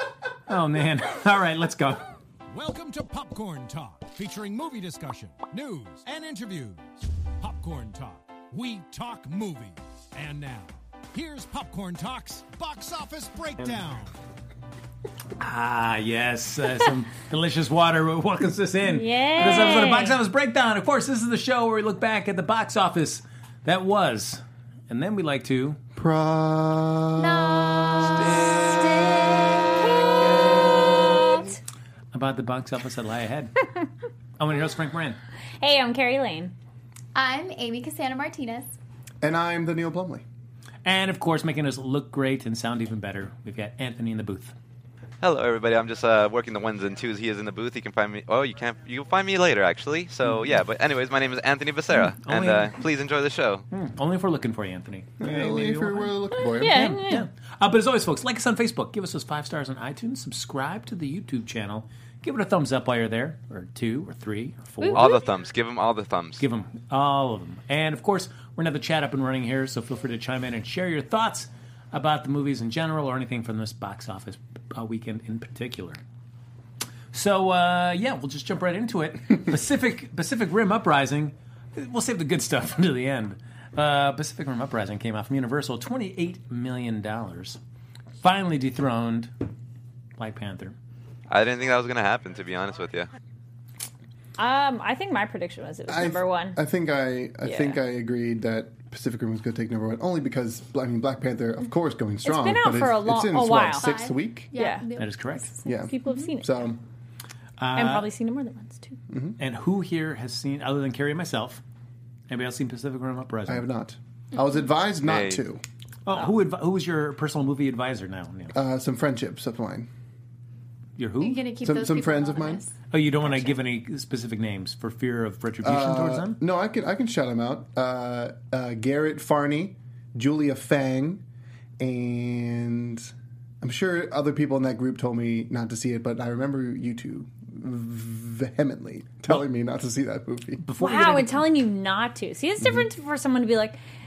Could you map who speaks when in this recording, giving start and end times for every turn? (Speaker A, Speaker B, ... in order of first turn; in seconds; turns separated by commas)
Speaker A: 0.5-2.0, Speaker B: 2.5-6.8, Speaker B: 7.4-14.1, Speaker A: 15.4-25.8, Speaker C: 18.9-20.2, Speaker D: 25.9-31.5, Speaker E: 27.2-31.0, Speaker C: 31.1-31.5, Speaker A: 32.1-33.6, Speaker A: 34.4-35.2, Speaker C: 35.6-36.5, Speaker E: 37.1-38.7, Speaker D: 39.2-40.2, Speaker A: 40.8-44.5, Speaker F: 45.2-53.7, Speaker A: 51.9-52.8, Speaker A: 53.7-65.2, Speaker D: 55.2-56.9, Speaker C: 56.4-57.3, Speaker C: 64.8-65.2, Speaker F: 64.9-66.4, Speaker A: 66.4-76.0, Speaker A: 77.1-87.6, Speaker A: 88.2-89.3, Speaker A: 90.2-90.8, Speaker F: 91.3-93.1, Speaker C: 94.4-96.6, Speaker D: 95.9-104.5, Speaker C: 97.4-97.8, Speaker C: 102.2-103.9, Speaker E: 103.7-105.7, Speaker C: 104.5-104.8, Speaker A: 105.0-105.5, Speaker D: 105.6-106.8, Speaker C: 105.7-106.5, Speaker A: 107.6-108.1, Speaker C: 107.7-109.0, Speaker D: 109.1-109.4, Speaker A: 109.4-111.6, Speaker A: 112.3-113.7, Speaker D: 113.5-115.6, Speaker F: 115.0-115.4, Speaker A: 116.1-118.5, Speaker D: 118.5-119.9, Speaker A: 121.0-121.4, Speaker E: 121.2-123.6, Speaker D: 121.6-122.6, Speaker A: 122.9-126.4, Speaker D: 125.6-131.2, Speaker D: 131.8-140.6, Speaker A: 140.6-141.5, Speaker C: 140.8-143.8, Speaker D: 142.6-142.8